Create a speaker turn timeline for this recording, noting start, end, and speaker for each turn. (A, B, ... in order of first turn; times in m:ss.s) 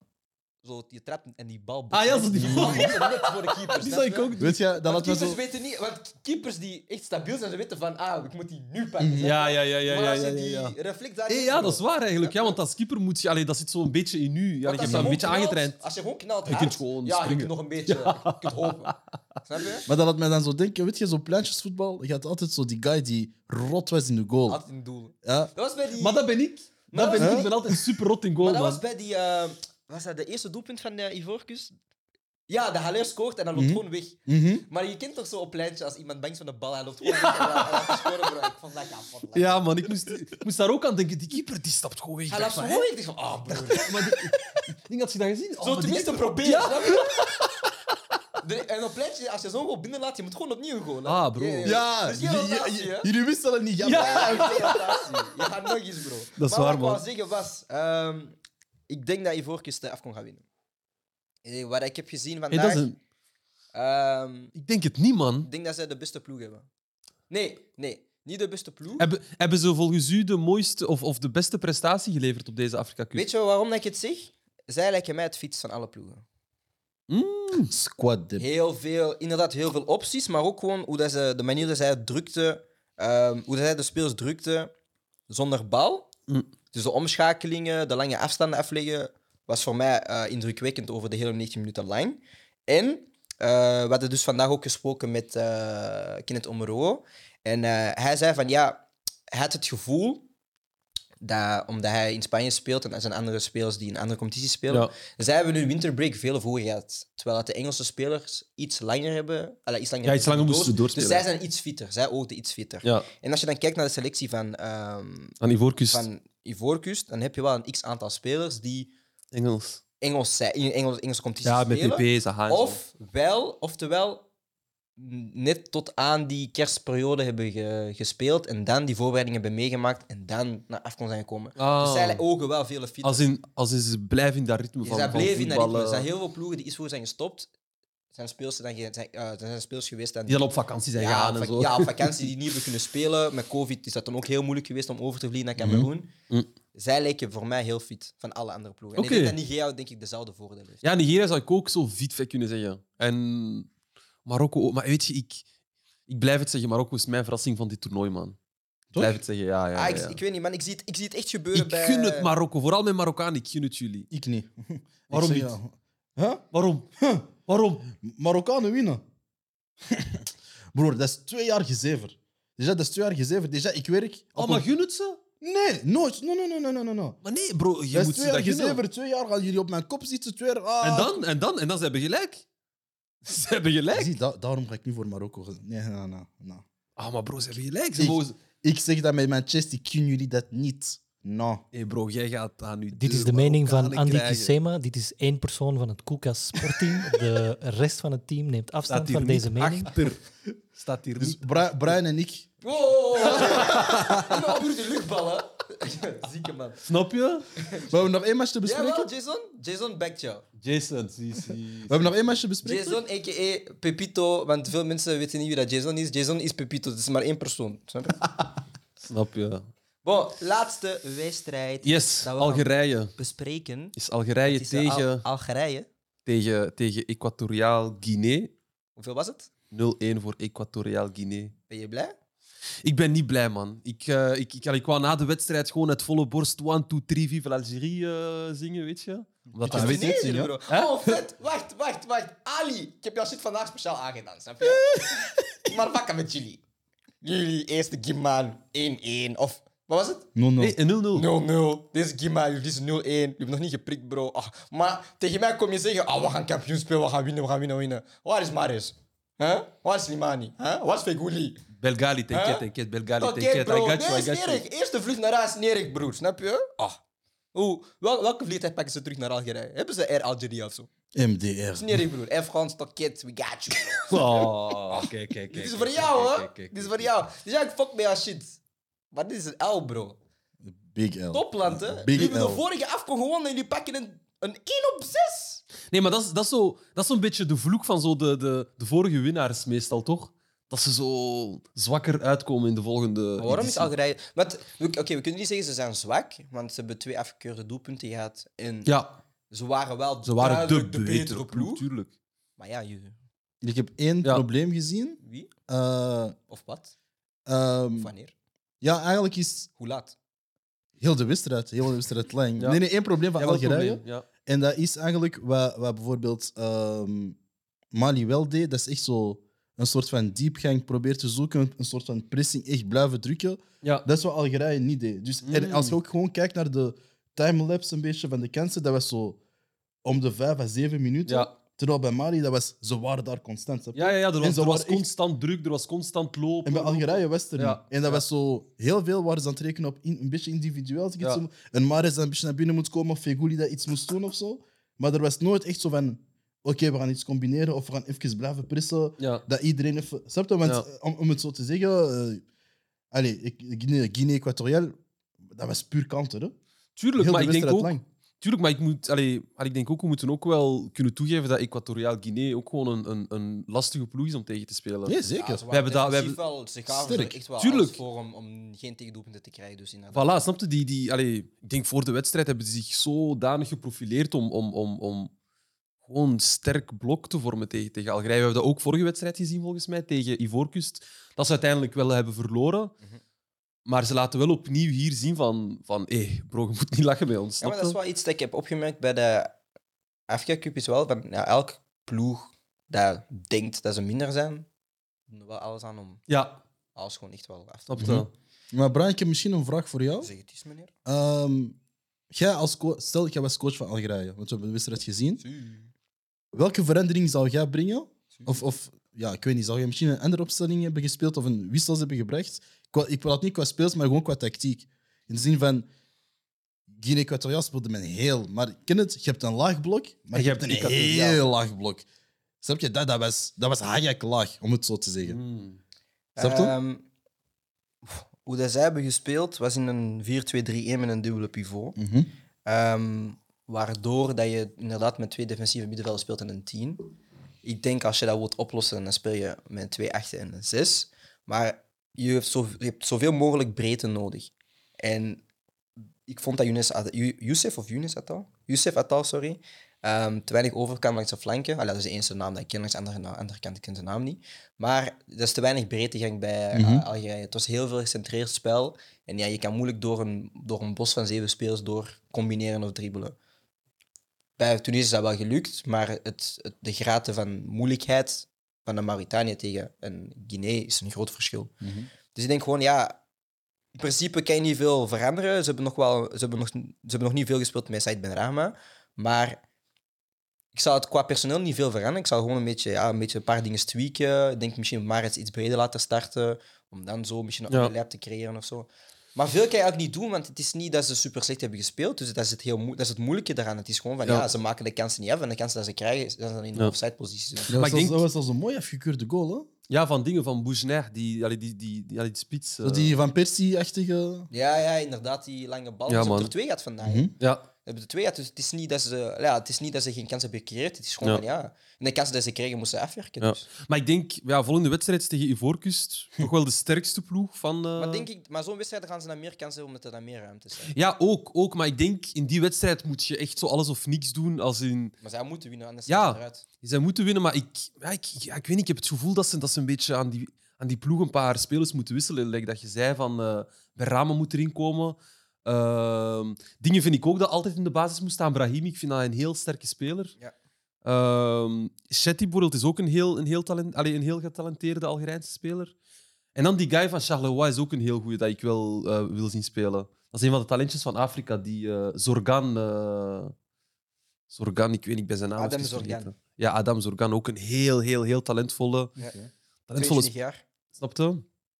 0:00.6-0:12.6 A
0:01.9-0:04.6 B
0:02.4-0:02.9 C
0:04.4-0:05.4 C
0:09.0-0:09.3 C
0:09.2-0:10.8 B
0:11.3-0:15.8 B
0:14.6-0:18.9 A
0:14.8-0:15.2 C
0:16.4-0:19.0 B
0:19.4-0:19.9 A
0:19.8-0:24.6 C
0:24.5-0:26.2 A
0:25.2-0:25.5 C
0:26.0-0:28.8 B
0:26.9-0:27.8 A
0:27.2-0:27.5 C
0:28.4-0:31.7 A
0:32.5-0:39.9 A
0:33.5-0:34.6 C
0:37.1-0:38.1 B
0:39.3-0:42.9 B
0:42.3-0:44.3 A
0:43.5-0:47.7 B
0:45.6-0:47.2 A
0:48.4-0:53.1 A
0:51.0-0:51.8 B
0:51.6-0:54.6 C
0:53.8-0:55.1 B
0:53.8-0:58.3 A
0:56.4-0:57.0 B
0:58.9-1:00.4 A
1:01.4-1:02.8 A
1:02.5-1:03.0 B
1:03.7-1:04.5 A
1:04.5-1:05.5 B
1:05.4-1:06.7 A
1:07.3-1:09.1 A
1:09.0-1:13.2 B
1:13.2-1:16.2 A
1:17.1-1:17.7 B
1:17.6-1:18.4 C
1:18.4-1:24.7 A
1:25.3-1:26.1 A
1:26.7-1:40.3 A
1:41.2-1:55.4 A
1:50.0-1:51.2 B
1:55.4-1:56.0 B
1:55.9-1:58.9 A
1:59.3-1:59.8 B
2:00.0-2:04.2 A
2:01.4-2:02.8 B
2:05.0-2:13.2 A
2:11.6-2:12.2 B
2:13.0-2:16.1 B
2:14.8-2:17.5 A
2:18.1-2:20.4 A
2:20.3-2:22.3 B
2:21.0-2:26.1 A
2:26.7-2:30.9 A
2:28.9-2:29.4 B
2:30.8-2:33.7 B
2:34.2-2:35.4 B
2:36.1-2:38.4 B
2:38.9-2:39.2 C
2:39.0-2:40.2 B
2:39.7-2:42.3 A
2:41.5-2:44.1 B
2:44.1-2:46.4 C
2:45.1-2:45.5 B
2:46.5-2:46.9 B
2:47.0-2:47.3 C
2:47.5-2:47.9 B
2:47.9-2:49.0 C
2:49.9-2:54.7 C
2:54.4-2:55.2 B
2:55.4-2:57.2 C
2:57.2-2:58.8 B
2:57.9-3:01.2 C
3:00.8-3:02.4 B
3:03.2-3:04.1 B
3:03.9-3:06.6 C
3:07.0-3:08.4 B
3:08.0-3:11.6 C
3:11.7-3:14.5 B
3:12.9-3:19.9 D
3:18.9-3:20.2 B
3:20.8-3:21.6 B
3:21.2-3:22.5 C
3:22.6-3:26.8 A
3:23.2-3:24.1 B
3:23.7-3:24.0 C
3:26.8-3:27.5 B
3:27.6-3:27.9 A
3:27.8-3:29.1 C
3:28.6-3:30.4 A
3:30.6-3:32.1 B
3:31.9-3:33.0 C
3:32.6-3:38.3 A
3:39.0-3:39.6 B
3:40.0-3:43.9 A
3:41.8-3:43.1 B
3:44.0-3:45.2 B
3:44.5-3:45.9 A
3:46.2-3:48.5 B
3:49.0-3:49.5 A
3:49.7-3:51.5 B
3:51.7-3:52.1 A
3:52.8-4:01.2 B
3:59.5-4:00.5 C
3:59.6-4:06.6 A
4:04.8-4:05.0 C
4:07.2-4:10.3 A
4:10.4-4:10.8 C
4:10.6-4:11.3 B
4:11.1-4:21.6 A
4:21.8-4:24.6 B
4:22.3-4:22.6 A
4:23.2-4:27.0 A
4:27.5-4:30.9 A
4:31.1-4:32.0 C
4:31.8-4:38.6 A
4:34.0-4:37.1 B
4:39.1-4:40.2 A
4:40.6-4:42.6 C
4:41.3-4:45.6 A
4:45.9-4:53.9 B
4:53.4-4:58.9 A
4:58.9-4:59.2 B
4:59.5-5:01.8 A
5:00.2-5:02.1 B
5:02.6-5:03.2 A
5:03.6-5:06.4 C
5:05.2-5:05.5 A
5:06.5-5:06.9 A
5:07.5-5:08.1 C
5:08.0-5:08.3 A
5:08.8-5:09.7 C
5:09.8-5:10.1 A
5:11.0-5:17.4 C
5:13.4-5:14.2 B
5:17.9-5:29.4 C
5:25.4-5:25.9 B
5:30.0-5:35.1 C
5:31.3-5:31.5 B
5:33.9-5:38.2 B
5:36.6-5:52.4 C
5:49.2-5:49.4 B
5:53.1-5:54.9 C
5:55.5-5:56.5 C
5:57.0-6:05.2 B
5:57.2-5:58.0 C
6:05.0-6:05.6 C
6:05.4-6:10.3 A
6:05.7-6:08.0 B
6:07.0-6:07.4 C
6:10.1-6:15.3 B
6:16.0-6:22.9 B
6:23.8-6:28.0 B
6:27.6-6:29.6 A
6:30.3-6:34.6 A
6:35.3-6:36.2 A
6:36.3-6:36.6 B
6:37.0-6:38.2 A
6:37.9-6:38.3 B
6:38.0-6:40.3 C
6:40.2-6:40.9 A
6:41.0-6:41.8 C
6:42.3-6:45.4 C
6:45.4-6:45.9 A
6:46.5-6:55.9 C
6:56.9-7:02.0 C
7:00.3-7:01.4 B
7:02.6-7:05.4 C
7:05.2-7:05.8 B
7:06.4-7:07.0 A
7:06.4-7:06.7 C
7:08.0-7:12.0 A
7:12.0-7:12.3 C
7:12.6-7:24.5 A
7:25.0-7:25.4 A
7:26.3-7:43.3 A
7:36.7-7:37.0 C
7:44.6-7:51.7 A
7:51.8-7:52.1 C
7:52.3-7:53.2 A
7:53.9-7:59.6 A
8:00.7-8:17.7 A
8:17.7-8:19.7 C
8:17.7-8:18.2 B
8:19.9-8:23.1 B
8:22.8-8:24.5 C
8:24.5-8:27.3 A
8:26.1-8:26.5 B
8:27.0-8:27.3 C
8:27.4-8:27.7 B
8:27.8-8:33.6 A
8:33.4-8:38.3 B
8:38.0-8:40.9 A
8:40.9-8:45.1 B
8:45.2-8:46.6 A
8:46.1-9:00.3 B
9:01.0-9:05.9 B
9:06.5-9:13.5 B
9:14.5-9:19.2 B
9:15.6-9:16.3 A
9:19.9-9:20.3 B
9:20.0-9:20.6 A
9:20.9-9:21.4 B